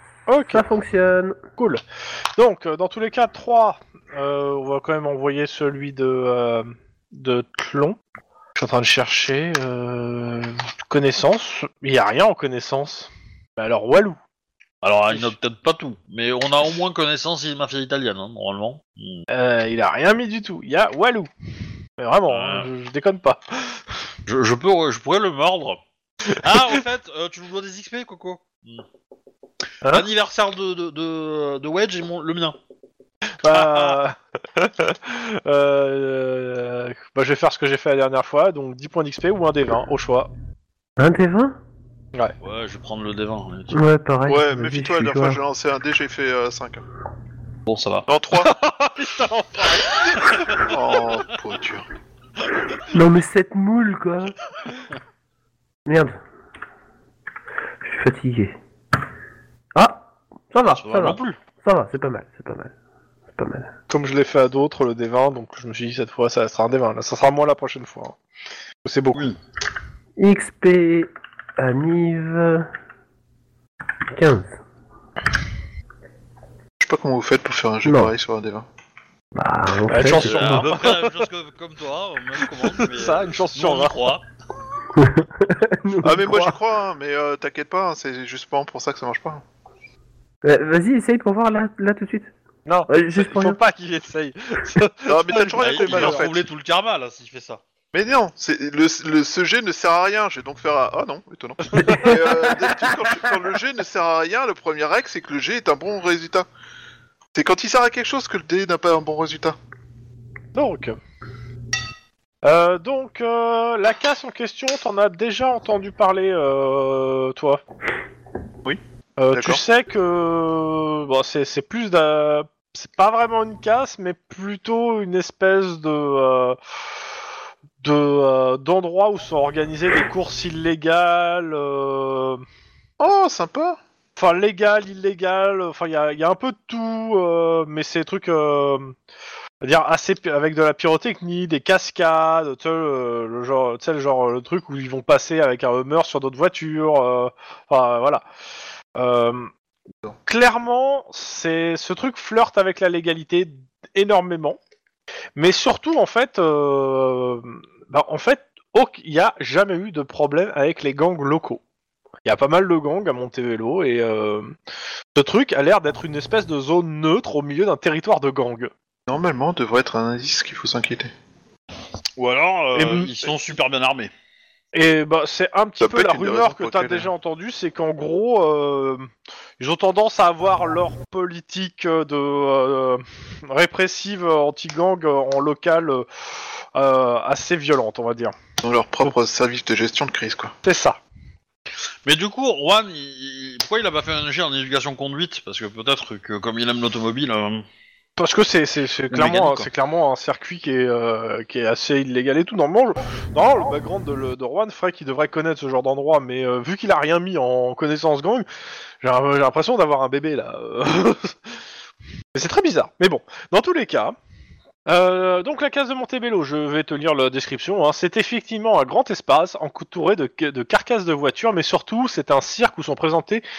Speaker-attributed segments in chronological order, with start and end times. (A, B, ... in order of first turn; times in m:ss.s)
0:00.3-0:00.6 A
0:00.5-0:01.4 B
0:01.6-0:01.8 A
0:02.4-0:08.0 A
0:08.6-0:14.2 A
0:14.8-0:19.2 C
0:19.3-0:21.3 A
0:22.0-0:23.8 A
0:22.3-0:22.7 C
0:24.3-0:28.8 C
0:29.9-0:32.6 C
0:33.4-0:40.3 A
0:33.5-0:34.0 C
0:41.0-0:41.6 B
0:42.4-0:43.8 C
0:43.7-0:45.4 B
0:44.3-0:46.8 D
0:47.7-0:48.1 C
0:48.1-0:48.5 D
0:48.4-0:50.5 A
0:50.6-0:51.9 D
0:52.9-0:54.4 B
0:55.9-0:56.2 B
0:57.8-0:58.6 B
0:59.8-1:02.7 B
1:00.7-1:01.4 C
1:03.4-1:03.7 B
1:03.9-1:08.2 A
1:08.8-1:09.3 A
1:10.2-1:12.7 B
1:14.1-1:14.6 B
1:16.8-1:18.7 D
1:17.8-1:18.1 B
1:19.4-1:20.6 B
1:19.9-1:21.2 A
1:20.0-1:24.2 C
1:22.5-1:24.1 A
1:25.0-1:26.6 B
1:26.0-1:29.4 D
1:30.4-1:32.3 B
1:32.7-1:36.2 A
1:32.9-1:33.6 B
1:35.1-1:36.5 D
1:35.6-1:37.6 C
1:37.9-1:46.5 D
1:41.7-1:42.3 A
1:47.3-1:49.6 D
1:50.5-1:51.0 A
1:52.4-1:57.6 A
1:59.2-2:06.6 A
1:59.3-1:59.6 D
2:07.8-2:12.4 A
2:13.0-2:13.8 D
2:14.2-2:19.0 A
2:19.6-2:28.2 A
2:29.0-2:29.5 A
2:30.2-2:34.6 A
2:35.4-2:41.6 A
2:42.2-2:44.5 A
2:45.2-2:48.7 A
2:49.1-2:51.1 D
2:52.2-2:54.1 C
2:52.8-2:53.2 A
2:54.7-2:59.1 A
2:55.8-2:57.1 D
2:59.6-3:08.4 A
3:08.6-3:10.6 D
3:10.6-3:11.0 A
3:12.0-3:17.6 C
3:18.2-3:28.5 A
3:19.1-3:19.7 C
3:29.0-3:31.6 A
3:32.4-3:34.2 A
3:34.9-3:43.4 A